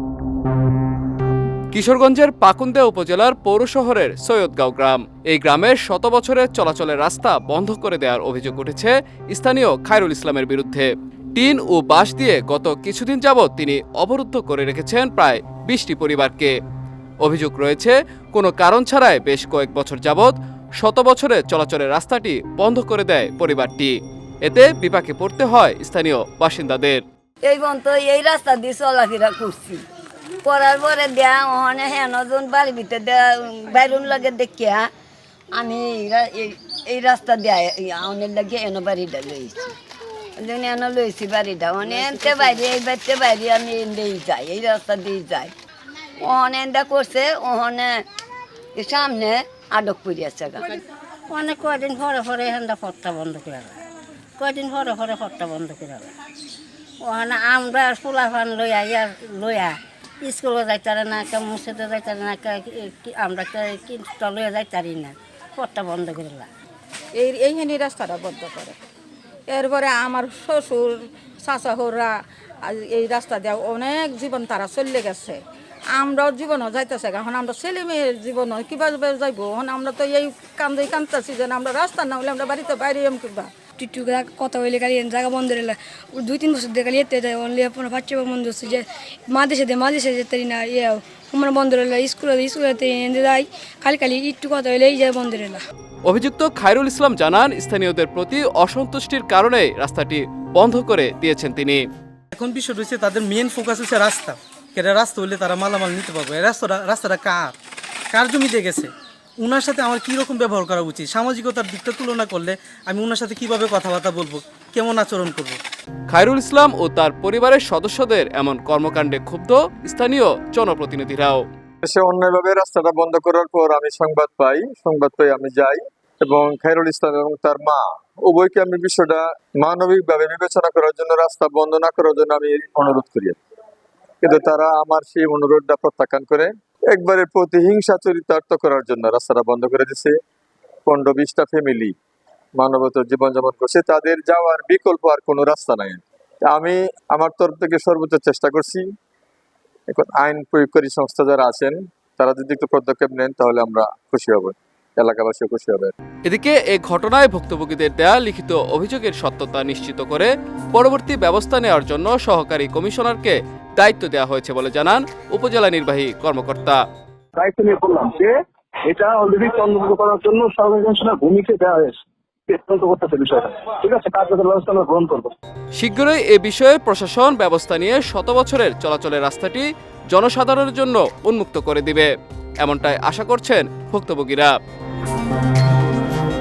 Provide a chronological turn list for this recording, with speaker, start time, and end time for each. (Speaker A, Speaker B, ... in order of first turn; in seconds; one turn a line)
Speaker A: 1.7-16.5
Speaker A: 17.2-27.0
Speaker B: 27.4-29.8
Speaker B: 30.4-34.9
Speaker B: 35.5-39.7
Speaker B: 40.4-45.5
Speaker B: 46.2-48.0
Speaker B: 48.8-50.7
Speaker C: 51.3-53.7
Speaker C: 54.4-56.1
Speaker C: 57.0-66.5
Speaker D: 67.2-68.8
Speaker D: 69.5-75.4
Speaker D: 75.9-83.5
Speaker E: 83.8-95.6
Speaker A: 96.0-101.8
Speaker F: 102.3-107.5
Speaker F: 108.1-115.6
Speaker A: 116.1-121.4
Speaker G: 121.8-133.4
Speaker G: 134.2-140.2
Speaker G: 140.8-141.9
Speaker G: 142.6-148.9
Speaker G: 149.9-155.9
Speaker A: 156.2-166.8
Speaker H: 167.3-175.3
Speaker A: 175.8-182.1
Speaker A: 182.6-184.5